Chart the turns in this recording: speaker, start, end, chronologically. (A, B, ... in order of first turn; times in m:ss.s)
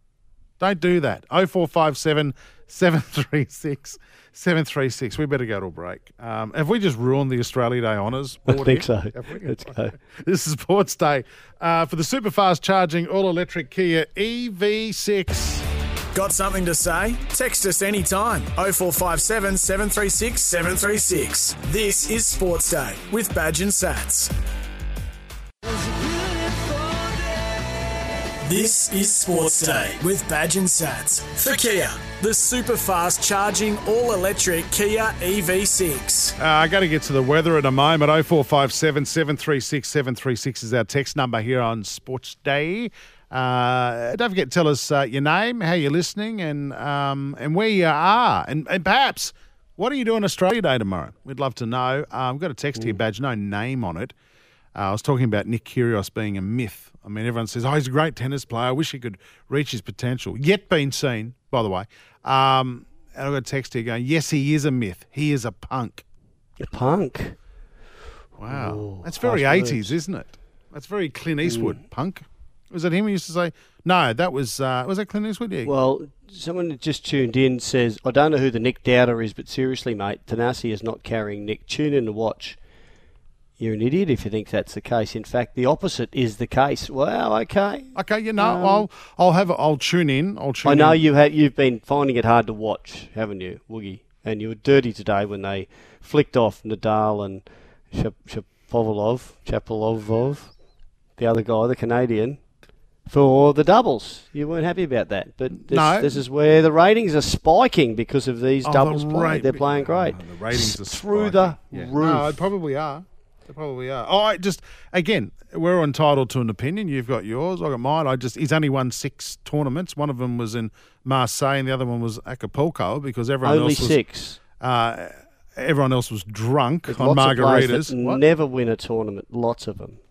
0:00.6-0:15.6 A
0:08.5-0:10.0 B
0:16.1-0:24.3 C
0:28.4-0:36.4 C
0:36.4-0:54.1 A
0:54.8-1:06.0 A
1:06.6-1:07.4 B
1:08.4-1:15.7 A
1:08.5-1:10.0 B
1:11.4-1:11.8 B
1:15.6-1:22.6 B
1:23.6-1:28.9 B
1:28.0-1:31.0 A
1:30.6-1:40.5 B
1:41.2-1:42.4 B
1:43.1-1:52.5 B
1:45.5-1:46.2 A
1:48.6-2:04.0 A
2:03.4-2:04.4 B
2:04.6-2:08.2 A
2:06.9-2:10.0 B